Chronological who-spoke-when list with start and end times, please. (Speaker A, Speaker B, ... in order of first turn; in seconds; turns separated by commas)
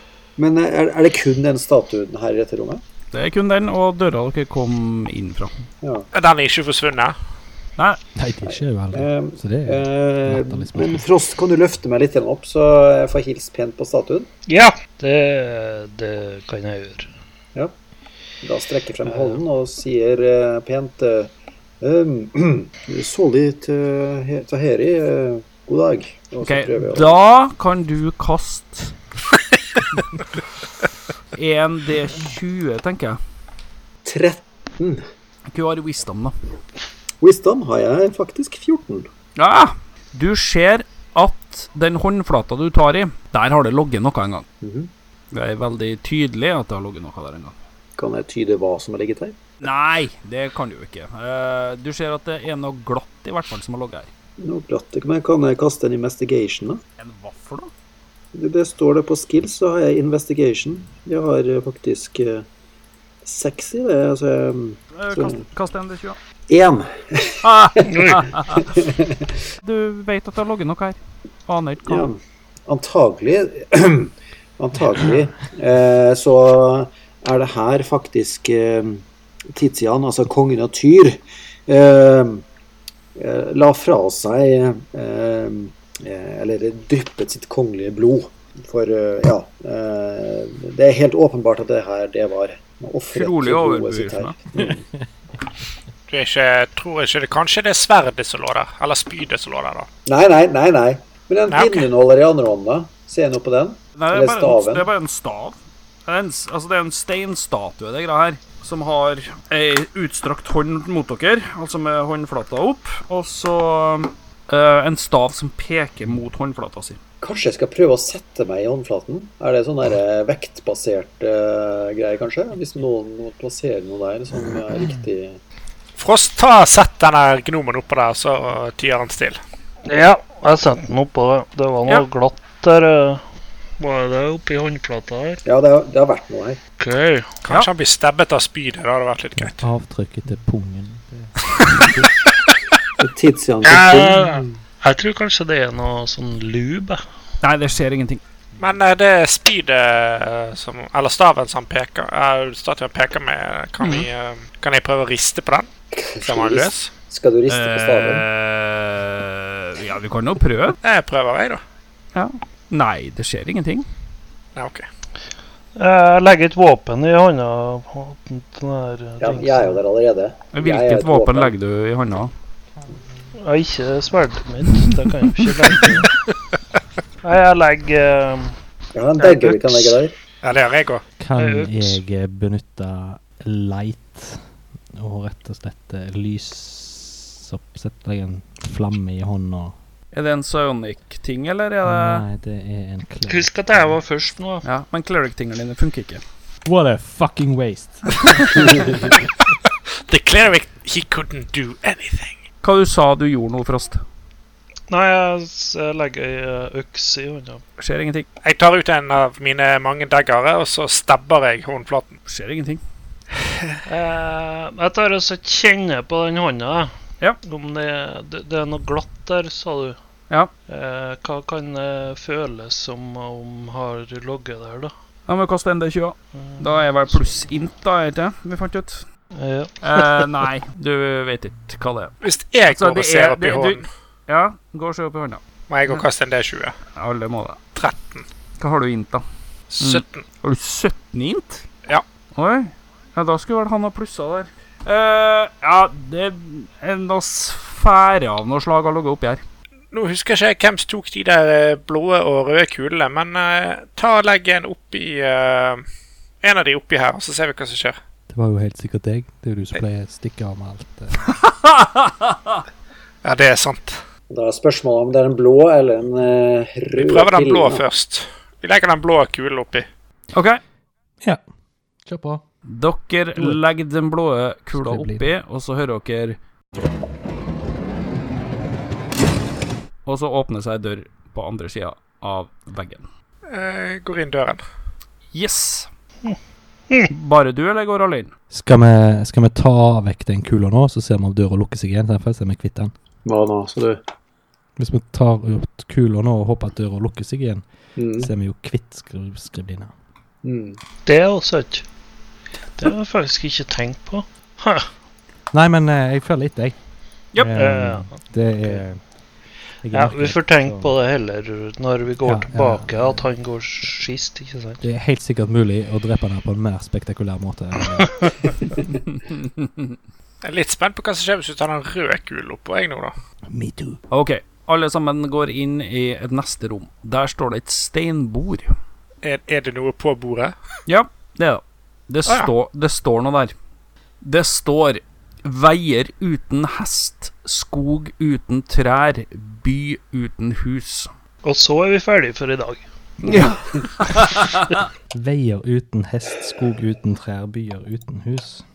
Speaker A: 0.4-2.8, Speaker B: 3.1-5.6, Speaker A: 5.8-6.1, Speaker C: 6.1-7.1, Speaker D: 8.2-11.0, Speaker A: 8.4-14.3, Speaker E: 14.5-17.1, Speaker A: 18.4-27.2, Speaker B: 26.4-28.9, Speaker B: 31.3-33.2, Speaker A: 34.0-35.0, Speaker B: 35.5-36.3, Speaker A: 37.2-39.1, Speaker B: 39.4-44.5, Speaker A: 44.6-44.9, Speaker B: 45.3-47.5, Speaker A: 48.0-49.4, Speaker B: 49.6-54.1, Speaker A: 54.4-56.8, Speaker B: 57.0-57.7, Speaker A: 58.3-62.5, Speaker A: 63.2-65.4, Speaker B: 64.9-66.2, Speaker A: 66.5-67.8, Speaker B: 67.4-68.6, Speaker E: 67.9-68.3, Speaker A: 68.5-69.3, Speaker B: 69.6-72.1, Speaker A: 71.8-82.4, Speaker A: 83.1-94.8, Speaker B: 93.1-94.3, Speaker C: 96.1-99.9, Speaker A: 100.0-104.9, Speaker C: 101.5-101.9, Speaker B: 104.0-105.5, Speaker B: 106.1-117.0, Speaker A: 117.2-125.4, Speaker C: 126.0-129.4, Speaker E: 129.8-133.2, Speaker E: 133.8-135.4, Speaker A: 135.4-136.6, Speaker E: 136.8-137.3, Speaker C: 137.4-139.6, Speaker D: 139.3-142.1, Speaker A: 143.0-144.5, Speaker E: 143.6-147.0, Speaker B: 147.4-148.2, Speaker C: 148.6-155.7, Speaker B: 153.8-154.1, Speaker A: 155.9-158.2, Speaker C: 156.2-156.9, Speaker B: 157.5-160.8, Speaker C: 160.8-161.6, Speaker B: 162.1-163.9, Speaker C: 164.6-164.8, Speaker E: 165.8-169.8, Speaker A: 169.2-171.5, Speaker B: 170.5-172.3, Speaker E: 173.4-176.1, Speaker E: 177.2-178.5, Speaker A: 178.9-180.1, Speaker E: 179.2-180.0, Speaker C: 180.4-181.0, Speaker D: 181.2-184.4, Speaker E: 181.3-182.0, Speaker D: 184.9-189.7, Speaker B: 190.1-192.2, Speaker D: 191.8-193.9, Speaker E: 193.3-194.6, Speaker B: 194.6-196.2, Speaker D: 196.6-199.1, Speaker C: 200.1-202.4, Speaker B: 202.6-204.0, Speaker E: 204.9-207.6, Speaker B: 207.8-208.2, Speaker C: 208.4-212.2, Speaker B: 212.3-212.8, Speaker E: 213.9-216.9, Speaker E: 217.4-220.0, Speaker E: 220.7-224.9, Speaker B: 225.3-229.1, Speaker E: 226.4-226.8, Speaker E: 229.4-230.0, Speaker B: 229.8-232.1, Speaker C: 232.2-233.9, Speaker B: 232.7-236.0, Speaker C: 235.7-236.7, Speaker B: 236.9-237.6, Speaker C: 237.8-238.2, Speaker B: 238.6-239.2, Speaker C: 239.7-240.2, Speaker B: 239.8-241.6, Speaker B: 242.3-249.4, Speaker C: 249.9-255.8, Speaker C: 256.4-258.0, Speaker D: 258.3-261.2, Speaker B: 261.4-262.6, Speaker C: 263.2-264.0, Speaker A: 264.3-267.8, Speaker C: 267.0-269.9, Speaker B: 270.3-270.6, Speaker D: 272.0-272.4, Speaker B: 272.7-276.4, Speaker D: 274.8-275.2, Speaker B: 280.1-283.1, Speaker C: 283.5-284.6, Speaker B: 285.3-285.9, Speaker B: 287.1-288.3, Speaker D: 288.5-292.9, Speaker A: 293.2-294.0, Speaker D: 294.8-297.6, Speaker A: 298.0-298.3, Speaker D: 298.2-299.9, Speaker A: 300.4-300.8, Speaker E: 301.1-301.8, Speaker E: 302.8-304.9, Speaker D: 305.5-309.1, Speaker E: 307.6-308.8, Speaker D: 309.8-310.9, Speaker E: 309.9-314.8, Speaker D: 312.2-313.2, Speaker D: 314.8-318.7, Speaker E: 318.0-318.3, Speaker B: 319.1-319.9, Speaker C: 320.4-323.1, Speaker D: 323.5-324.0, Speaker B: 324.1-328.7, Speaker C: 329.2-330.5, Speaker B: 330.9-333.5, Speaker B: 334.2-341.1, Speaker E: 341.4-342.8, Speaker B: 343.2-344.6, Speaker D: 345.1-348.6